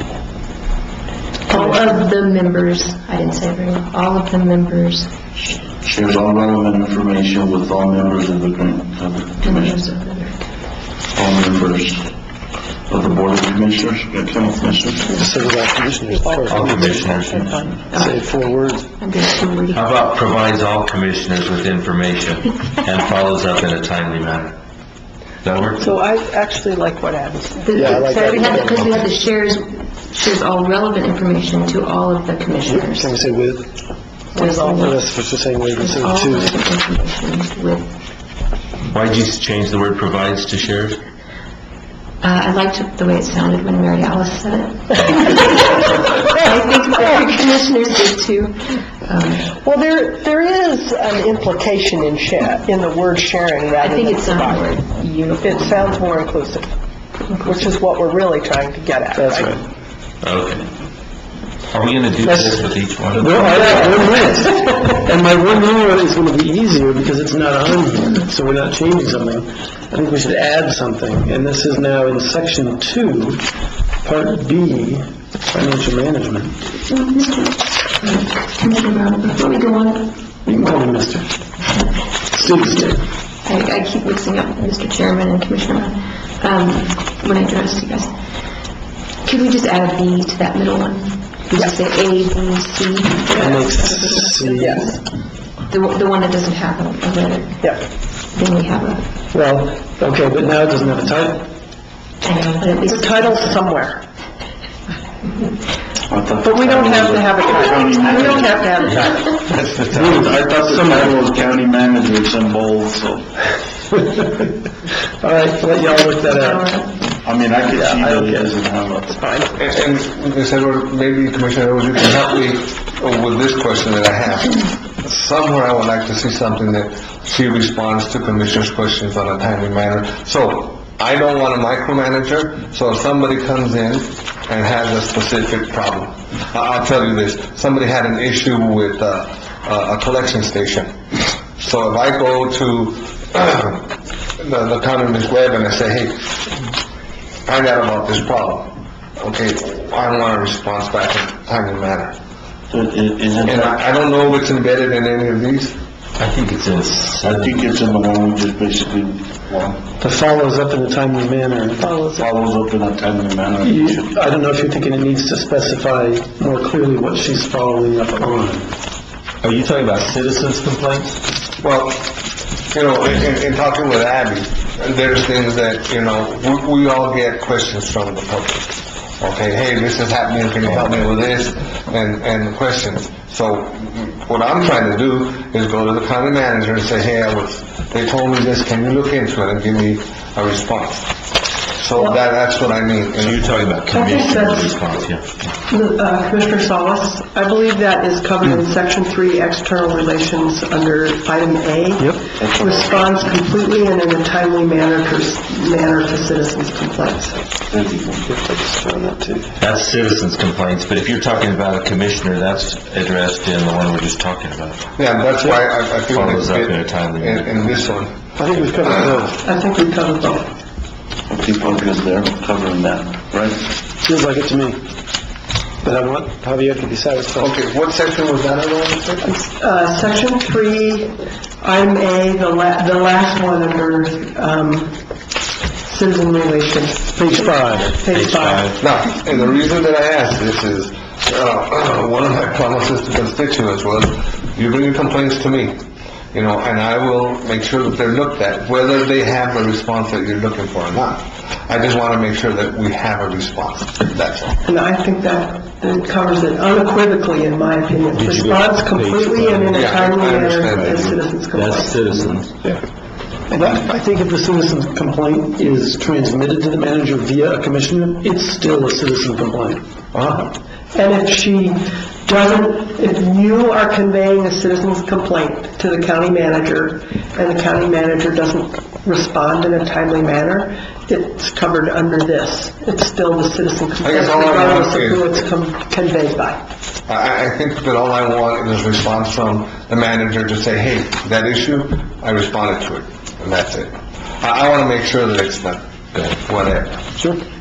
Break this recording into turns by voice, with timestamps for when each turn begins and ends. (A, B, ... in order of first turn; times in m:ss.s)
0:01.5-0:05.1 A
0:05.8-0:09.8 B
0:09.4-0:10.5 A
0:11.1-0:12.1 B
0:12.9-0:15.2 B
0:15.1-0:17.0 C
0:16.1-0:17.8 D
0:16.5-0:17.6 E
0:17.3-0:17.7 B
0:17.9-0:19.9 A
0:17.9-0:18.8 C
0:19.7-0:24.6 E
0:25.4-0:26.0 E
0:25.8-0:29.0 D
0:27.6-0:33.1 A
0:27.8-0:29.0 C
0:32.7-0:33.8 C
0:34.4-0:35.0 A
0:34.4-0:34.8 D
0:34.8-0:36.6 C
0:35.8-0:38.0 A
0:38.8-0:41.0 E
0:42.2-0:49.6 A
0:49.6-0:54.7 D
0:53.8-0:56.1 A
0:55.4-0:56.8 D
0:57.3-0:57.7 A
0:57.4-0:59.5 D
0:59.2-0:59.6 C
1:00.2-1:00.7 E
1:01.7-1:04.2 E
1:02.2-1:02.6 C
1:03.1-1:13.5 C
1:14.0-1:16.6 C
1:16.9-1:20.2 A
1:20.4-1:21.4 C
1:22.3-1:23.0 C
1:22.4-1:22.9 A
1:23.4-1:28.1 A
1:29.2-1:35.1 A
1:33.4-1:34.9 C
1:34.6-1:34.9 D
1:35.7-1:37.8 A
1:38.3-1:39.1 A
1:39.3-1:41.5 C
1:42.2-1:43.6 A
1:42.8-1:44.0 D
1:46.1-1:48.9 B
1:46.4-1:49.4 D
1:49.6-1:50.2 E
1:49.9-1:51.1 C
1:50.1-1:53.3 B
1:54.0-1:54.5 C
1:55.2-1:56.7 C
1:55.9-1:57.0 A
1:57.2-1:59.3 B
1:57.7-1:58.5 C
1:59.6-2:20.9 F
2:21.6-2:26.2 F
2:27.5-2:32.2 F
2:32.7-2:33.9 B
2:33.4-2:35.8 F
2:36.2-2:37.7 E
2:37.2-2:39.8 B
2:40.0-2:41.9 C
2:41.8-2:42.2 D
2:42.2-2:44.2 B
2:43.6-2:48.7 C
2:49.4-2:51.2 E
2:51.6-2:52.1 F
2:52.7-3:11.1 F
3:11.8-3:13.8 F
3:13.2-3:15.2 E
3:13.9-3:14.8 D
3:15.7-3:27.4 D
3:22.0-3:22.2 C
3:22.4-3:23.3 B
3:27.7-3:28.3 B
3:28.3-3:29.5 C
3:29.6-3:34.8 E
3:35.0-3:38.2 F
3:36.1-3:37.5 E
3:38.4-3:39.4 C
3:38.9-3:39.2 F
3:39.4-3:40.5 D
3:41.3-3:43.6 B
3:44.0-3:44.8 C
3:45.8-3:47.6 C
3:47.4-3:49.4 F
3:49.3-3:55.0 D
3:55.9-3:58.7 D
3:57.2-3:58.0 C
3:58.1-3:58.8 E
3:58.7-4:05.8 F
4:06.3-4:14.6 F
4:14.7-4:22.2 D
4:18.1-4:19.9 E
4:19.7-4:21.1 F
4:20.8-4:22.5 E
4:23.5-4:30.5 C
4:30.9-4:46.6 D
4:44.0-4:45.4 F
4:47.1-4:53.9 F
4:54.4-4:57.0 F